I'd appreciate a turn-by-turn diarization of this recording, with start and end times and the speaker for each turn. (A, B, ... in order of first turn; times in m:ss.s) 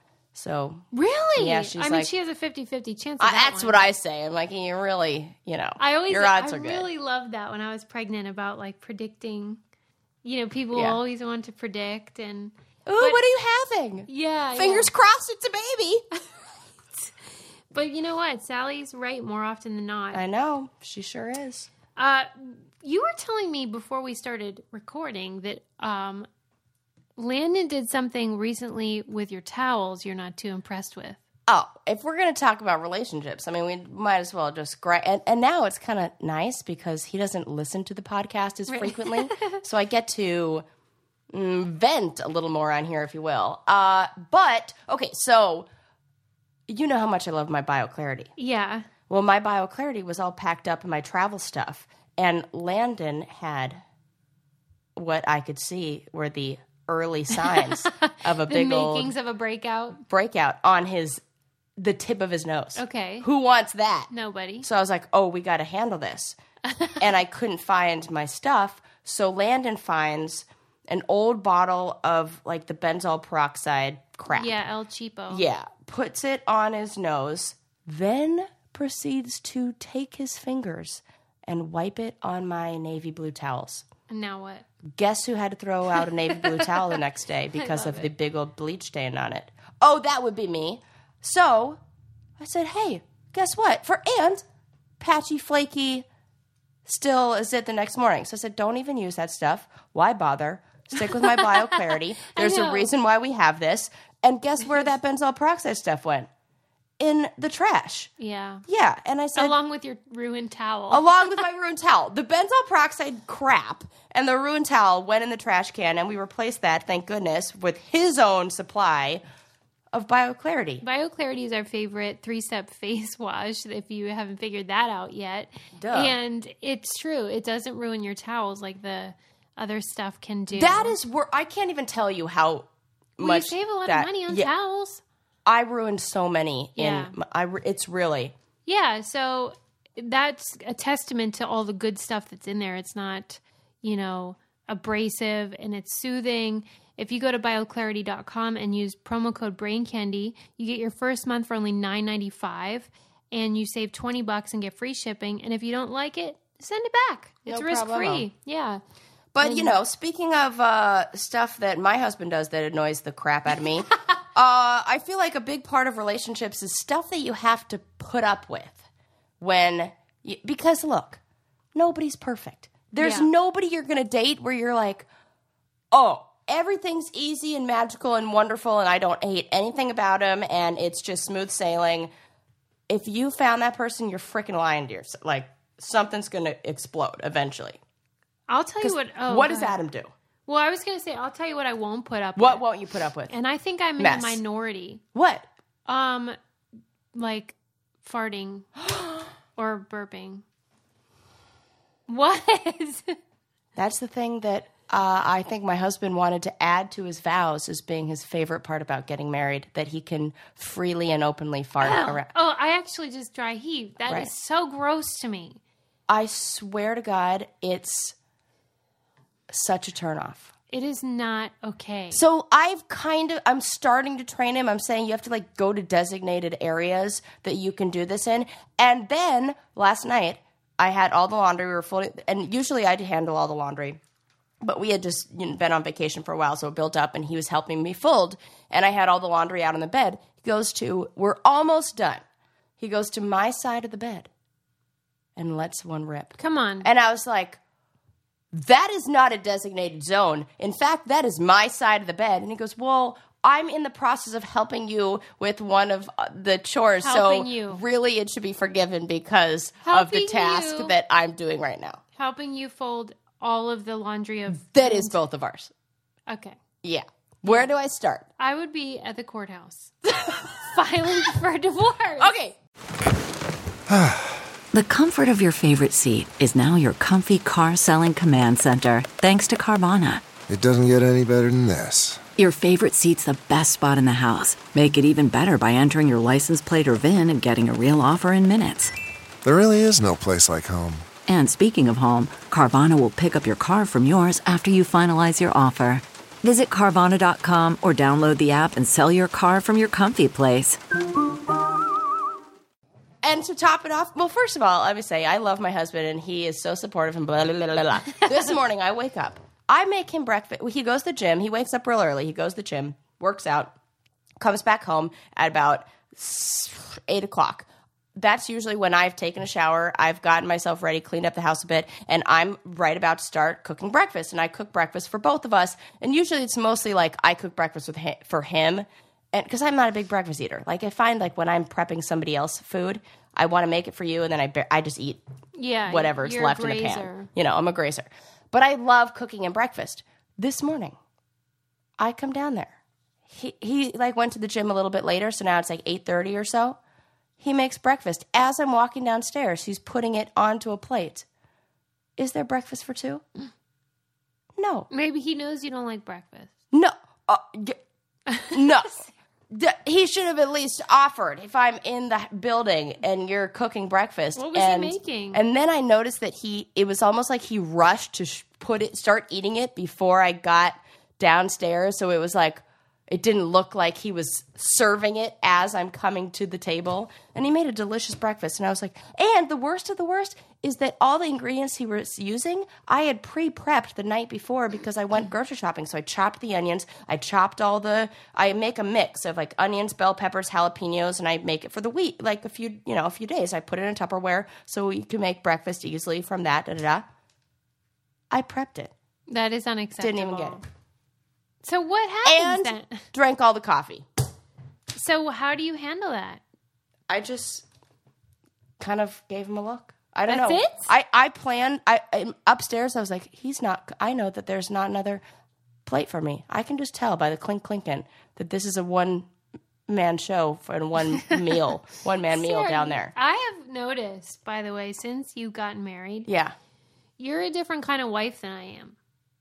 0:00.3-0:02.1 A
0:00.9-0:03.9 B
0:03.2-0:06.9 A
0:05.8-0:09.6 B
0:10.2-0:13.2 B
0:10.7-0:11.0 A
0:12.8-0:16.0 A
0:14.1-0:14.9 B
0:16.9-0:20.2 B
0:20.1-0:21.7 A
0:22.0-0:26.3 B
0:27.2-0:31.2 B
0:31.5-0:40.6 A
0:38.7-0:39.6 B
0:41.3-0:45.7 A
0:46.7-0:48.3 A
0:48.4-0:48.9 B
0:49.1-0:53.8 A
0:55.0-0:59.1 A
0:57.3-1:00.0 B
1:00.1-1:01.2 A
1:01.8-1:04.1 A
1:02.8-1:03.3 B
1:04.1-1:04.7 B
1:04.6-1:06.4 A
1:06.6-1:07.0 B
1:07.0-1:14.6 A
1:14.3-1:15.5 B
1:15.3-1:23.8 A
1:24.1-1:24.6 B
1:24.9-1:31.8 A
1:26.3-1:27.0 B
1:27.5-1:28.1 B
1:32.4-1:34.4 A
1:35.0-1:36.0 A
1:36.8-1:46.3 A
1:41.1-1:42.9 B
1:47.0-1:48.1 A
1:48.2-1:48.6 B
1:48.7-1:49.6 A
1:49.3-1:51.4 B
1:50.9-1:59.2 A
1:59.9-2:00.8 A
2:00.8-2:11.0 B
2:05.8-2:06.2 A
2:10.5-2:14.5 A
2:13.2-2:15.0 B
2:15.4-2:18.3 A
2:16.8-2:17.2 B
2:18.6-2:38.8 B
2:37.4-2:38.3 A
2:39.3-2:48.8 A
2:39.4-2:39.8 B
2:49.4-2:51.2 A
2:51.7-2:55.0 A
2:53.0-2:53.3 B
2:55.9-3:02.1 A
3:02.9-3:07.8 A
3:08.5-3:09.8 B
3:08.8-3:10.1 A
3:10.4-3:12.6 B
3:12.4-3:13.3 A
3:13.3-3:15.0 B
3:14.0-3:14.4 A
3:15.1-3:15.5 A
3:15.9-3:16.4 B
3:17.1-3:18.7 B
3:18.9-3:19.2 A
3:19.6-3:20.4 B
3:22.1-3:23.2 B
3:23.8-3:32.3 A
3:31.8-3:35.6 B
3:36.1-3:38.1 A
3:39.5-3:40.5 A
3:40.7-3:42.2 B
3:42.1-3:54.0 A
3:54.6-4:02.2 A
4:02.8-4:04.3 A
4:05.4-4:07.6 A
4:06.4-4:06.9 B
4:08.5-4:22.0 A
4:17.0-4:17.8 B
4:19.8-4:20.9 B
4:22.2-4:25.2 B
4:24.5-4:25.7 A
4:26.3-4:26.6 B
4:26.8-4:28.2 A
4:28.4-4:32.3 B
4:32.2-4:32.6 A
4:33.9-4:34.4 C
4:34.7-4:40.2 D
4:40.5-4:42.2 C
4:42.4-4:48.9 D
4:49.4-4:51.1 C
4:51.2-5:00.8 D
5:03.2-5:13.7 A
5:08.2-5:08.5 B
5:14.4-5:35.2 A
5:35.5-5:37.3 B
5:35.8-5:41.0 A
5:42.0-5:42.8 A
5:43.3-5:46.8 A
5:47.4-5:51.2 A
5:52.2-5:53.2 A
5:54.6-5:54.9 A
5:54.9-5:56.5 B
5:56.7-5:57.8 A
5:58.3-5:59.1 B
5:58.5-5:59.0 A
5:59.5-6:37.0 A
6:04.3-6:05.4 B
6:38.3-6:38.9 A
6:39.3-6:40.6 B
6:40.0-6:40.6 A
6:41.6-6:43.0 B
6:42.2-6:44.0 A
6:44.9-6:46.4 B
6:47.1-6:47.6 A
6:48.8-6:55.2 A
6:50.3-6:50.9 B
6:55.8-6:59.3 A
6:59.9-7:03.1 A
7:02.3-7:06.3 B
7:06.3-7:06.5 A
7:07.2-7:09.0 B